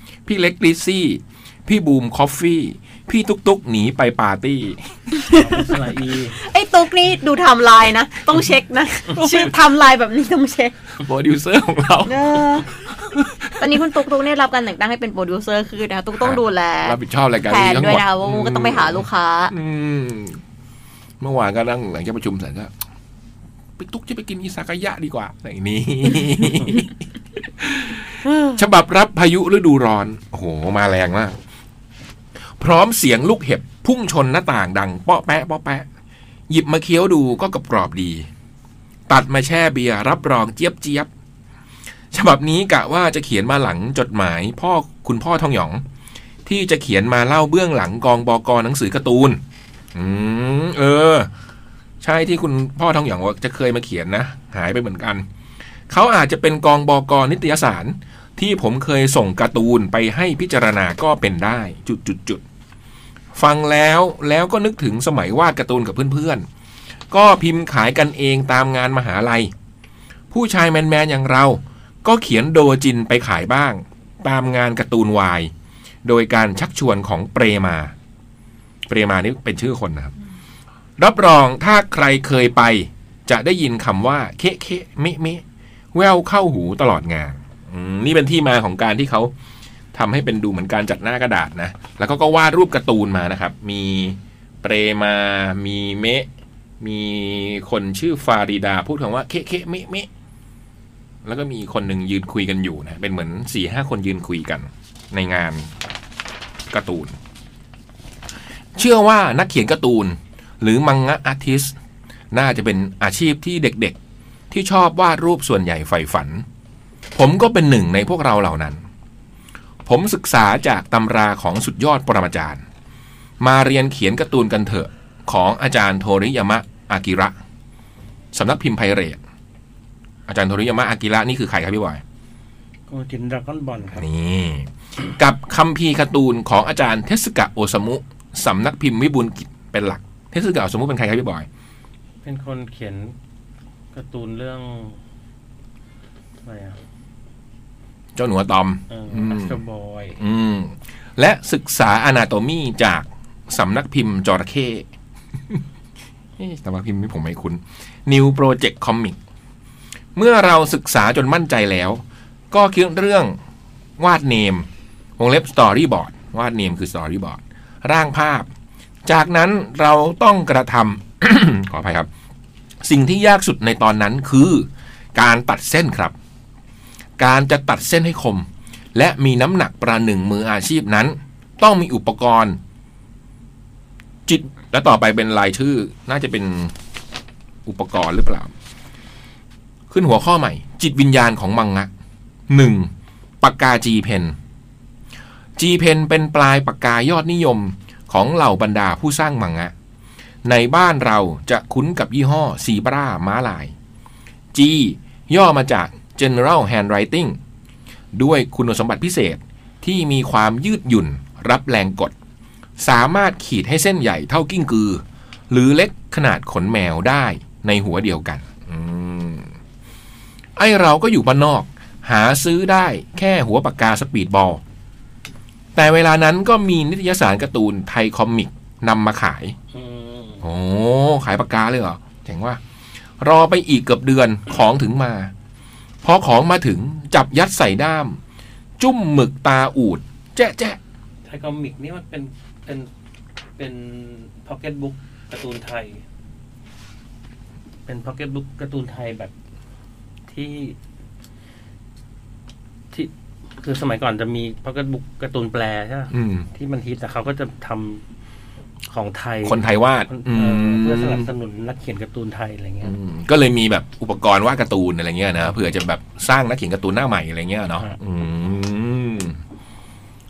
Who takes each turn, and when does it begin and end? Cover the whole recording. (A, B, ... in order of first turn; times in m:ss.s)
0:00.3-0:04.9 A
0:05.2-0:05.6 B
0:05.3-0:06.4 C
0:06.4-0:10.7 B
0:09.2-0:09.5 A
0:11.0-0:13.8 A
0:12.1-0:12.7 B
0:13.6-0:19.5 B
0:16.2-0:20.4 A
0:21.2-0:22.7 A
0:23.8-0:31.4 A
0:32.6-0:35.9 A
0:36.5-0:38.3 A
0:39.1-0:41.1 A
0:42.1-0:45.8 A
0:46.5-0:49.4 A
0:49.9-0:51.3 A
0:52.0-0:55.3 A
0:55.9-1:02.4 A
1:03.4-1:06.5 A
1:07.1-1:09.5 A
1:10.3-1:15.5 A
1:16.0-1:17.9 A
1:18.9-1:20.1 A
1:21.0-1:25.4 A
1:25.9-1:29.3 A
1:29.9-1:36.3 A
1:36.8-1:40.1 A
1:41.2-1:45.7 A
1:46.7-1:47.2 A
1:48.8-1:51.7 A
1:52.3-1:54.0 A
1:54.5-1:56.4 A
1:57.2-1:58.8 A
1:59.8-2:02.6 A
2:03.4-2:07.4 A
2:08.3-2:09.2 A
2:10.3-2:12.0 A
2:12.9-2:14.0 C
2:13.9-2:21.5 A
2:22.2-2:23.1 C
2:23.9-2:25.0 C
2:26.4-2:26.8 C
2:28.2-2:29.6 A
2:28.9-2:30.2 C
2:30.2-2:34.9 A
2:36.4-2:39.2 A
2:40.2-2:43.4 A
2:44.0-2:44.7 A
2:45.2-2:48.5 A
2:49.0-2:52.1 A
2:52.8-2:56.1 A
2:57.2-3:02.6 A
3:04.3-3:06.7 A
3:07.6-3:08.5 A
3:09.9-3:11.9 A
3:12.5-3:12.9 A
3:13.4-3:14.4 A
3:15.6-3:19.7 A
3:20.4-3:23.7 A
3:24.5-3:27.4 A
3:28.1-3:32.1 A
3:32.8-3:39.5 A
3:40.6-3:44.6 A
3:45.8-3:49.6 A
3:49.7-3:50.4 C
3:50.4-3:52.6 A
3:53.2-3:55.3 A
3:56.0-3:58.2 A
3:58.8-4:00.8 A
4:01.3-4:02.9 C
4:03.6-4:06.0 C
4:07.9-4:09.3 C
4:10.3-4:10.8 C
4:12.9-4:18.0 C
4:16.1-4:16.5 A
4:18.9-4:23.0 C
4:19.4-4:21.3 A
4:22.8-4:29.4 A